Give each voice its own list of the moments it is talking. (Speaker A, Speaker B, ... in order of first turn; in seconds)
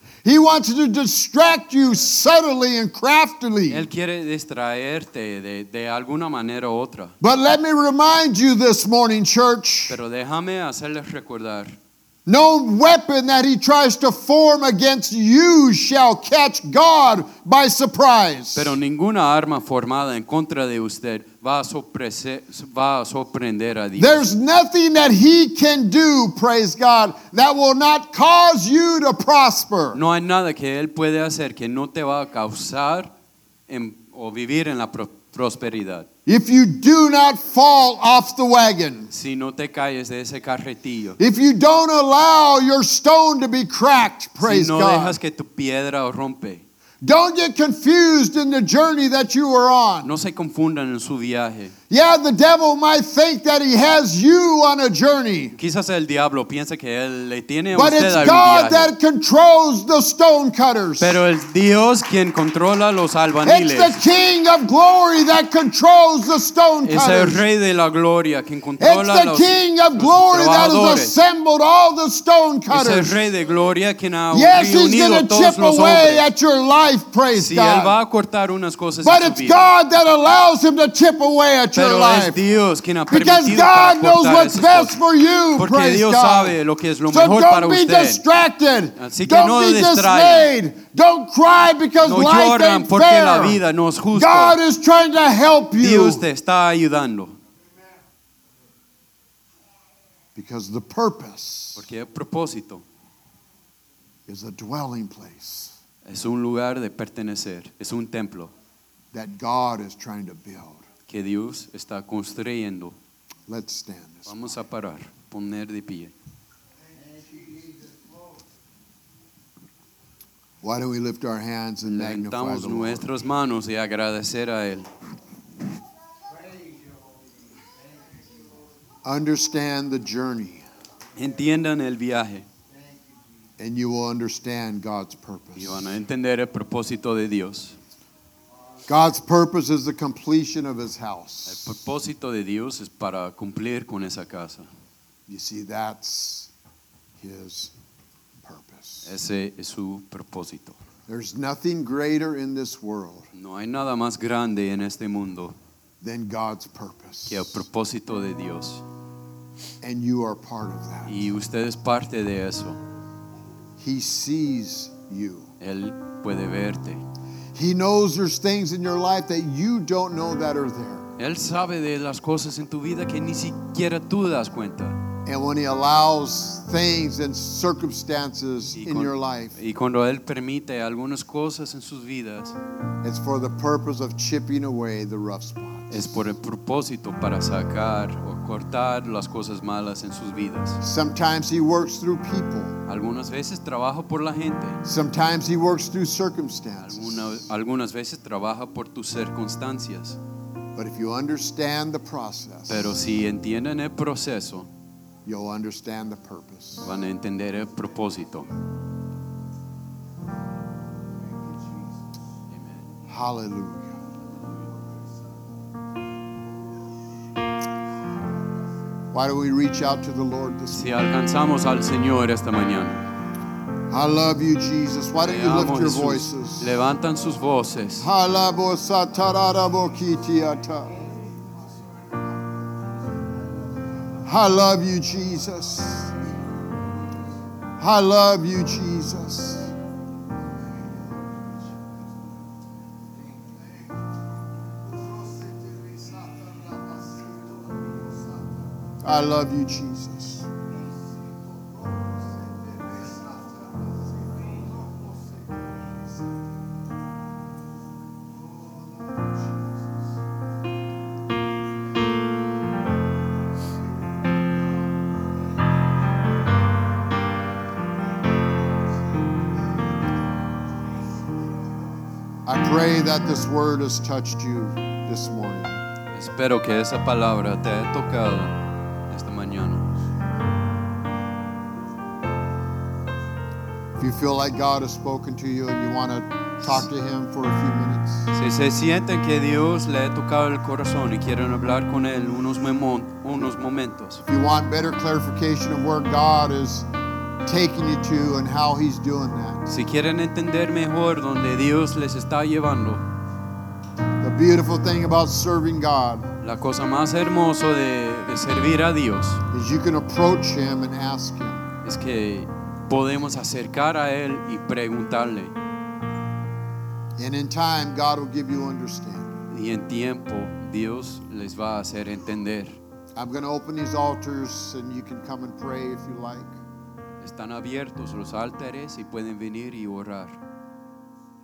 Speaker A: 0.2-3.9, 7.2-10.0, 12.3-18.8, 24.0-30.0, 36.3-39.1, 41.2-45.2, 47.0-50.1, 51.9-55.5, 57.7-61.2, 63.4-67.4, 68.8-73.2, 74.3-78.0, 79.0-82.4, 83.1-86.6, 87.1-93.6, 94.1-96.3, 100.4-101.8, 104.3-105.8, 109.1-110.8, 113.5-114.4, 120.6-123.1, 129.0-130.7, 133.6-136.0, 138.9-141.8, 145.3-146.5, 147.2-147.7, 148.4-149.1, 151.1-153.3, 156.0-157.6, 159.8-161.2, 163.8-165.5, 167.6-171.1, 175.2-179.6, 183.0-186.2, 190.8-192.8, 194.8-197.3, 200.8-203.0, 205.3-206.9, 213.1-213.9, 219.1-220.9, 223.9-226.8, 228.0-230.9, 234.2-236.1, 237.8-239.7, 249.0-250.5, 272.5-275.8, 284.0-288.3, 294.3-296.9, 297.4-299.6, 304.2-306.3, 309.5-311.6, 317.2-319.4, 323.2-326.6
Speaker B: 3.7-7.2, 9.9-11.8, 18.6-24.2, 29.9-33.1, 33.7-36.1, 39.1-41.2, 44.4-46.6, 50.0-51.7, 55.6-58.9, 61.0-64.0, 66.8-71.2, 72.7-76.3, 77.3-79.7, 81.8-85.0, 85.6-88.2, 89.0-90.5, 92.0-94.6, 95.8-97.4, 101.8-102.8, 106.0-108.5, 111.1-113.0, 114.3-116.1, 121.9-124.9, 131.2-132.5, 135.6-137.8, 141.5-144.7, 149.1-150.8, 153.3-155.6, 157.3-158.8, 161.1-162.8, 165.6-167.0, 171.2-175.0, 178.8-182.6, 185.9-190.8, 192.9-194.8, 196.8-200.2, 202.7-204.7, 206.8-208.5, 212.5-212.9, 220.7-223.0, 225.2-228.1, 276.1-280.0, 288.3-294.2, 299.7-303.1, 306.4-309.4, 311.8-315.6, 319.5-322.8, 327.2-330.4